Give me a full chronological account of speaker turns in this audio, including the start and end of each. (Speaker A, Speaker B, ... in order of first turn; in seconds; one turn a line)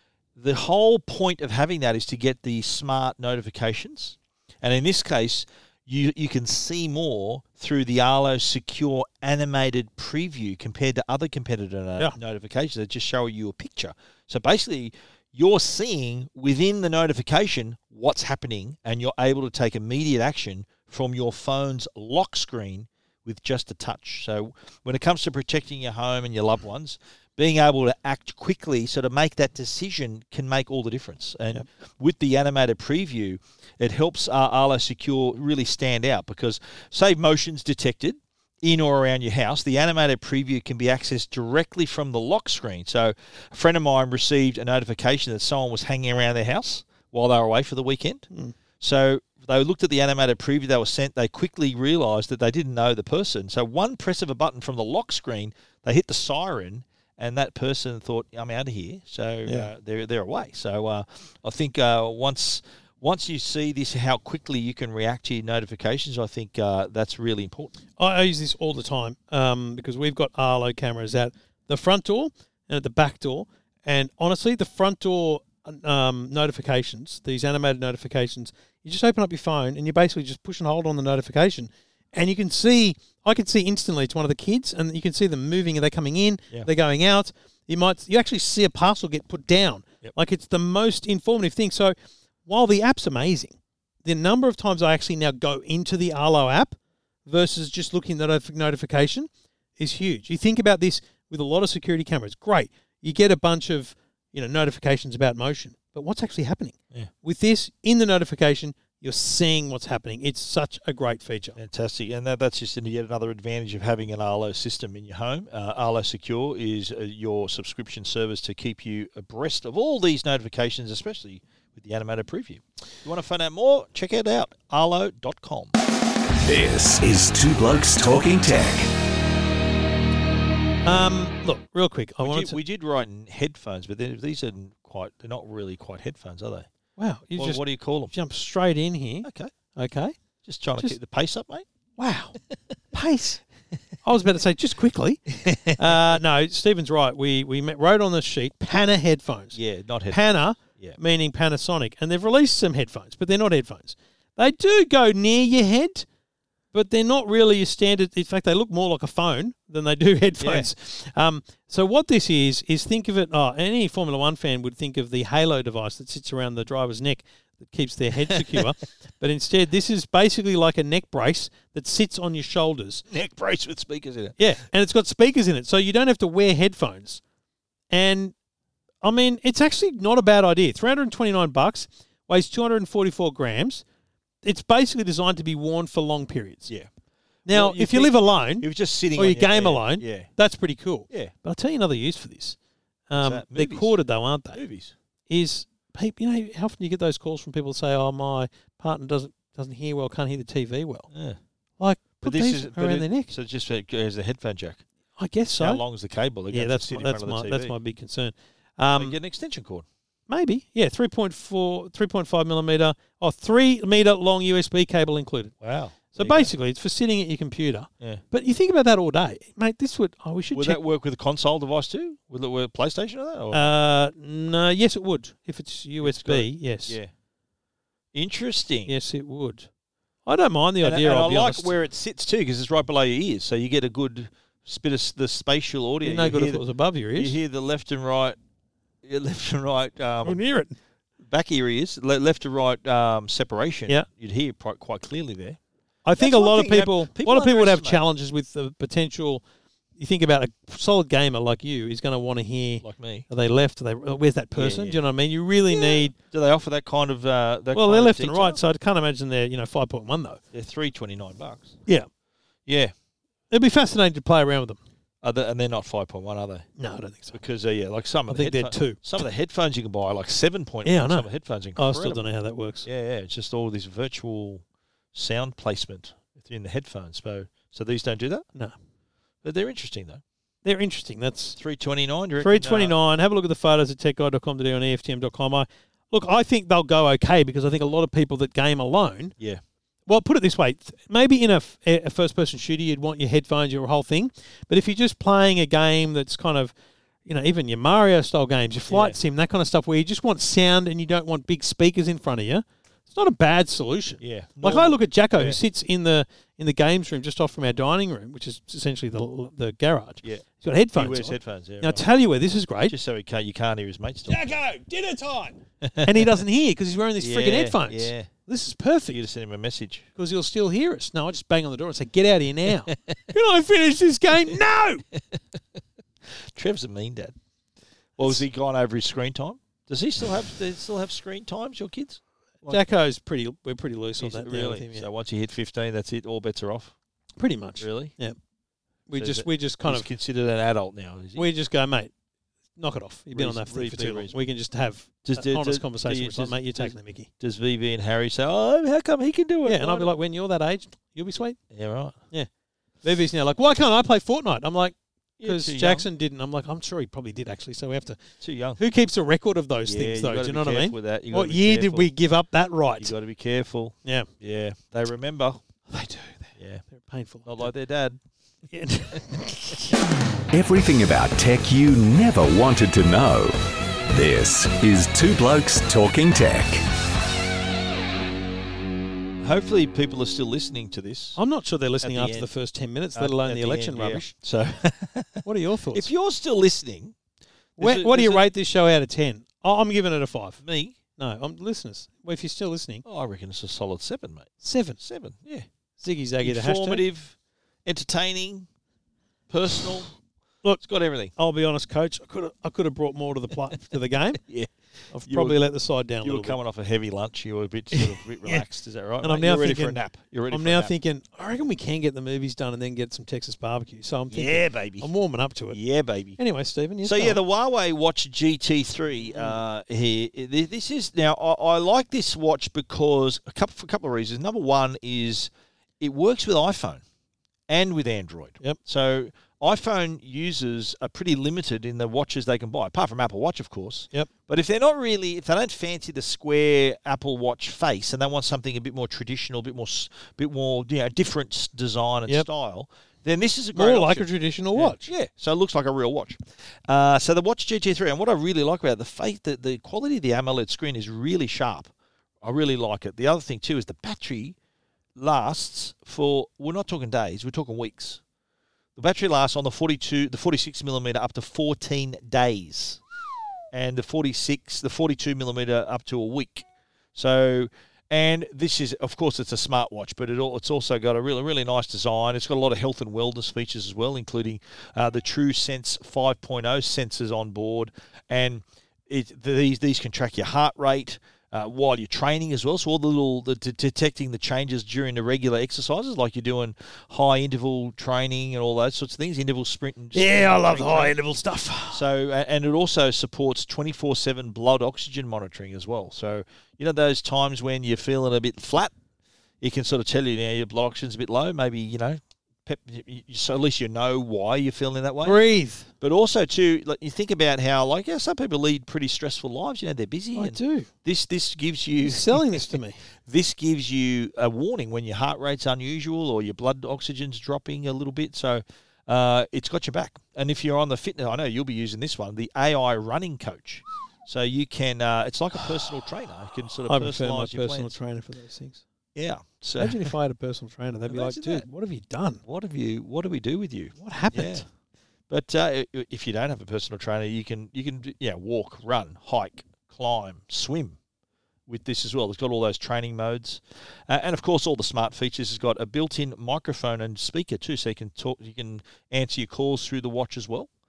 Speaker A: 0.3-48.3
Speaker A: 48.8-67.8
Speaker B: 68.0-111.6
Speaker A: 111.6-125.8
Speaker C: 126.4-128.9
Speaker B: 130.8-132.6
Speaker A: 132.2-136.7
Speaker B: 137.0-140.1
Speaker A: 137.3-138.1
Speaker A: 139.2-139.5
Speaker A: 140.4-141.7
Speaker B: 142.0-142.4
Speaker B: 142.9-143.4
Speaker B: 144.0-149.6
Speaker A: 145.3-146.0
Speaker A: 149.5-151.0
Speaker B: 150.1-156.1
Speaker B: 156.7-173.0
Speaker A: 160.4-160.7
Speaker A: 168.3-168.7
Speaker A: 173.1-174.4
Speaker B: 174.4-177.2
Speaker B: 177.9-178.3
Speaker B: 179.0-183.8
Speaker B: 184.4-186.7
Speaker B: 187.4-192.6
Speaker A: 187.5-190.3
Speaker B: 193.1-194.6
Speaker A: 193.2-193.9
Speaker A: 194.5-194.9
Speaker B: 195.3-201.1
Speaker A: 201.1-201.4
Speaker B: 201.8-203.3
Speaker A: 202.2-204.8
Speaker B: 205.2-205.8
Speaker A: 205.6-207.7
Speaker B: 206.5-209.2
Speaker A: 208.9-209.8
Speaker B: 210.3-215.5
Speaker A: 215.6-216.5
Speaker B: 216.1-220.8
Speaker A: 220.5-223.7
Speaker B: 223.5-227.0
Speaker A: 226.0-227.1
Speaker A: 228.1-228.9
Speaker B: 228.9-229.7
Speaker B: 230.2-231.7
Speaker A: 230.8-236.6
Speaker B: 236.0-237.3
Speaker A: 237.2-238.4
Speaker A: 239.0-240.4
Speaker B: 240.2-240.8
Speaker A: 241.2-245.6
Speaker B: 246.0-249.4
Speaker A: 246.2-248.0
Speaker B: 250.0-256.1
Speaker A: 252.8-253.2
Speaker A: 254.5-255.0
Speaker A: 255.7-258.6
Speaker B: 257.7-260.4
Speaker A: 260.5-261.8
Speaker A: 262.6-262.9
Speaker B: 263.5-264.8
Speaker A: 265.2-266.7
Speaker B: 266.8-267.4
Speaker A: 267.3-272.2
Speaker B: 268.3-269.0
Speaker B: 270.8-272.9
Speaker A: 272.8-278.4
Speaker A: 279.4-280.2
Speaker B: 280.6-281.6
Speaker A: 281.6-282.9
Speaker B: 282.4-289.3
Speaker B: 290.1-296.7
Speaker B: 297.2-312.9
Speaker A: 298.9-299.2
Speaker A: 304.2-305.6
Speaker A: 310.2-312.1
Speaker A: 312.9-314.4
Speaker B: 314.3-319.2
Speaker A: 315.8-316.3
Speaker A: 317.2-318.3
Speaker A: 319.1-320.1
Speaker B: 320.1-325.0
Speaker A: 325.1-327.4
Speaker A: 328.2-332.8
Speaker B: 332.7-335.1
Speaker A: 334.2-336.9
Speaker B: 337.4-338.4
Speaker A: 337.8-338.1
Speaker B: 339.1-340.1
Speaker A: 339.1-341.4
Speaker B: 341.4-342.1
Speaker B: 342.8-347.3
Speaker A: 343.3-344.4
Speaker A: 345.2-350.1
Speaker B: 349.6-351.6
Speaker A: 351.7-352.2
Speaker B: 353.0-358.2
Speaker A: 355.4-356.1
Speaker A: 358.4-358.8
Speaker B: 358.8-363.1
Speaker A: 359.9-362.1
Speaker A: 363.0-365.6
Speaker B: 364.0-364.3
Speaker B: 365.9-367.7
Speaker A: 367.4-368.2
Speaker B: 368.7-370.0
Speaker C: 370.5-376.8
Speaker A: 379.4-381.4
Speaker B: 381.4-384.3
Speaker A: 382.0-382.5
Speaker A: 383.1-387.1
Speaker B: 385.4-386.1
Speaker B: 387.8-390.6
Speaker A: 387.8-388.4
Speaker A: 390.6-391.0
Speaker B: 391.2-393.0
Speaker A: 393.0-395.6
Speaker B: 394.6-395.0
Speaker B: 396.0-397.0
Speaker A: 396.4-398.7
Speaker A: 399.5-400.1
Speaker A: 400.8-401.3
Speaker B: 401.3-404.4
Speaker A: 404.4-405.6
Speaker B: 405.1-406.6
Speaker A: 406.2-410.9
Speaker B: 407.9-408.6
Speaker B: 409.2-415.8
Speaker A: 414.3-415.1
Speaker A: 415.7-416.4
Speaker B: 416.4-417.4
Speaker A: 417.0-427.0
Speaker B: 419.2-419.6
Speaker A: 427.7-454.6
Speaker B: 443.7-445.1
Speaker A: 455.1-458.2
Speaker A: 458.9-463.0
Speaker A: 463.7-491.1
Speaker B: 490.1-492.0
Speaker A: 491.9-498.9
Speaker A: 499.6-505.4
Speaker B: 505.2-505.9
Speaker A: 506.0-527.9
Speaker B: 510.3-510.9
Speaker B: 512.0-513.0
Speaker B: 526.9-528.8
Speaker A: 529.1-530.1
Speaker B: 529.8-532.4
Speaker A: 531.1-531.6
Speaker A: 532.4-534.6
Speaker B: 534.0-534.7
Speaker A: 535.3-541.0
Speaker A: 541.7-550.7